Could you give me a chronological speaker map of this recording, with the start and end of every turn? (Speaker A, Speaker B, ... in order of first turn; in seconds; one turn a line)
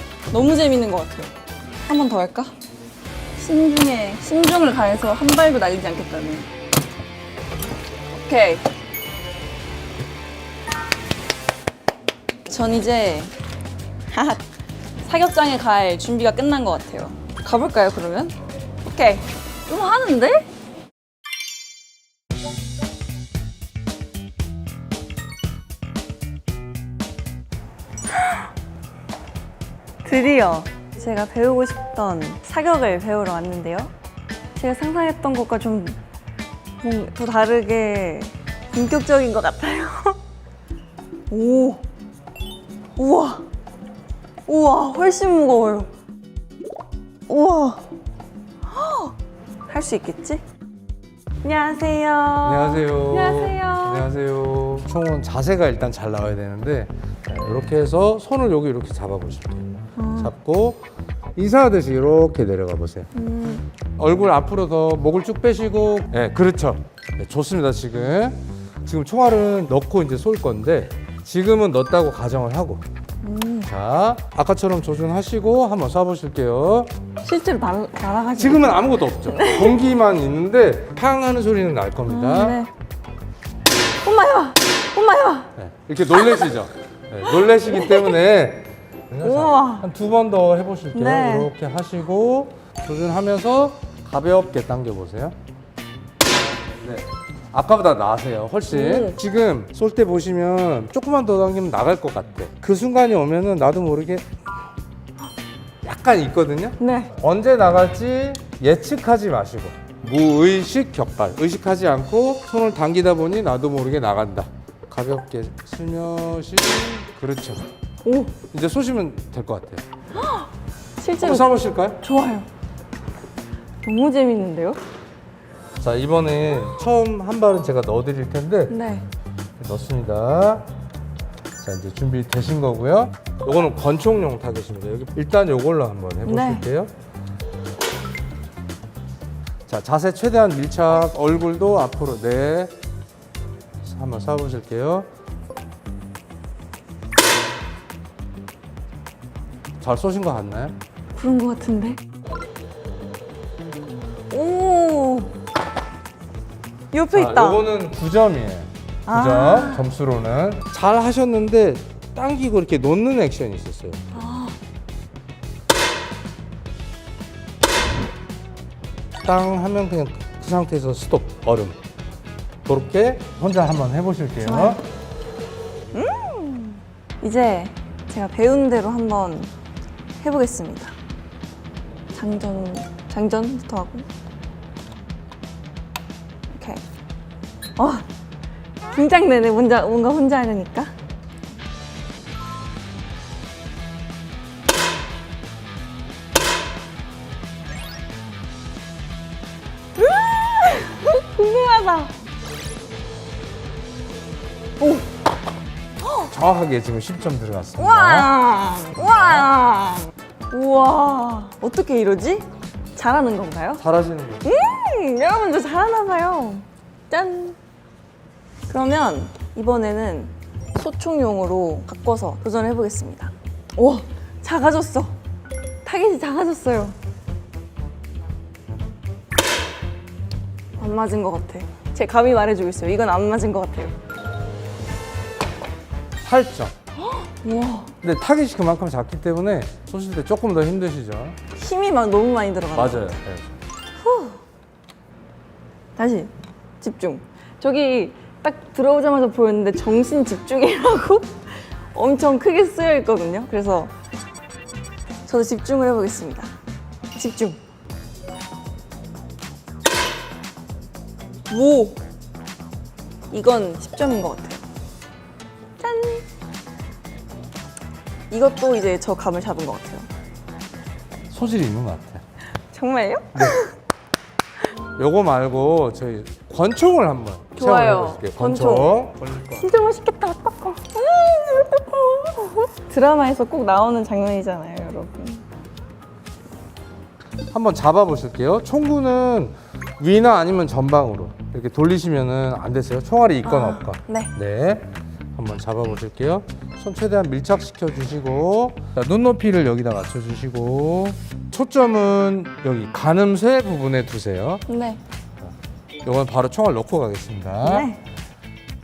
Speaker A: 0.3-1.3
Speaker A: 1.9-2.5
Speaker A: 3.4-6.5
Speaker A: 8.1-8.6
Speaker A: 12.5-13.3
Speaker A: 14.1-14.4
Speaker A: 15.0-20.5
Speaker A: 28.1-28.4
Speaker A: 30.0-33.9
Speaker A: 34.6-36.0
Speaker A: 36.8-40.2
Speaker A: 41.3-41.8
Speaker A: 43.0-43.5
Speaker A: 44.5-45.9
Speaker A: 47.3-47.9
Speaker A: 48.7-49.1
Speaker A: 49.7-50.4
Speaker A: 51.4-54.1
Speaker B: 52.4-60.8
Speaker A: 60.0-60.3
Speaker B: 61.4-63.1
Speaker A: 63.1-63.6
Speaker B: 64.0-72.8
Speaker A: 73.2-73.7
Speaker B: 73.7-76.9
Speaker A: 77.2-79.8
Speaker B: 78.4-82.6
Speaker A: 82.1-82.7
Speaker A: 84.0-85.5
Speaker B: 85.6-95.4
Speaker A: 86.2-86.5
Speaker A: 87.4-88.2
Speaker A: 89.2-89.9
Speaker A: 91.0-91.5
Speaker B: 96.8-104.3
Speaker A: 98.7-99.2
Speaker B: 105.8-117.7
Speaker A: 106.8-107.1
Speaker A: 118.0-118.3
Speaker B: 118.5-119.8
Speaker A: 120.1-122.5
Speaker B: 121.2-122.0
Speaker A: 123.8-124.8
Speaker B: 125.8-128.8
Speaker A: 128.7-129.1
Speaker B: 129.6-130.7
Speaker B: 131.6-136.9
Speaker A: 136.2-136.6
Speaker B: 139.7-142.7
Speaker B: 143.8-145.1
Speaker B: 149.8-150.8
Speaker A: 151.1-152.0
Speaker A: 154.3-155.3
Speaker A: 156.9-157.7
Speaker B: 157.1-164.1
Speaker A: 159.1-159.9
Speaker A: 164.1-164.6
Speaker B: 169.2-171.8
Speaker B: 172.7-174.8
Speaker A: 174.4-174.8
Speaker A: 175.9-179.5
Speaker A: 180.2-181.0
Speaker A: 182.1-184.1
Speaker A: 186.5-186.8
Speaker A: 187.8-188.1
Speaker A: 188.9-190.9
Speaker A: 200.0-202.1
Speaker A: 204.8-205.1
Speaker B: 206.3-208.3
Speaker A: 207.8-213.8
Speaker B: 213.8-214.6
Speaker A: 214.4-217.6
Speaker A: 218.7-225.2
Speaker A: 225.8-227.0
Speaker A: 230.8-233.9
Speaker B: 236.2-236.7
Speaker A: 237.0-237.9
Speaker B: 238.0-241.4
Speaker A: 241.6-243.1
Speaker B: 242.7-243.5
Speaker A: 244.0-244.4
Speaker A: 246.0-253.9
Speaker A: 255.3-256.5
Speaker A: 257.1-257.6
Speaker A: 261.5-262.0
Speaker A: 263.3-264.6
Speaker A: 265.8-266.2
Speaker A: 268.3-270.1
Speaker B: 271.3-272.2
Speaker A: 272.7-273.7
Speaker B: 275.0-279.7
Speaker A: 277.6-278.9
Speaker A: 279.5-285.4
Speaker B: 287.5-304.6
Speaker A: 293.4-294.3
Speaker A: 304.7-305.0
Speaker B: 306.1-307.9
Speaker A: 307.6-308.0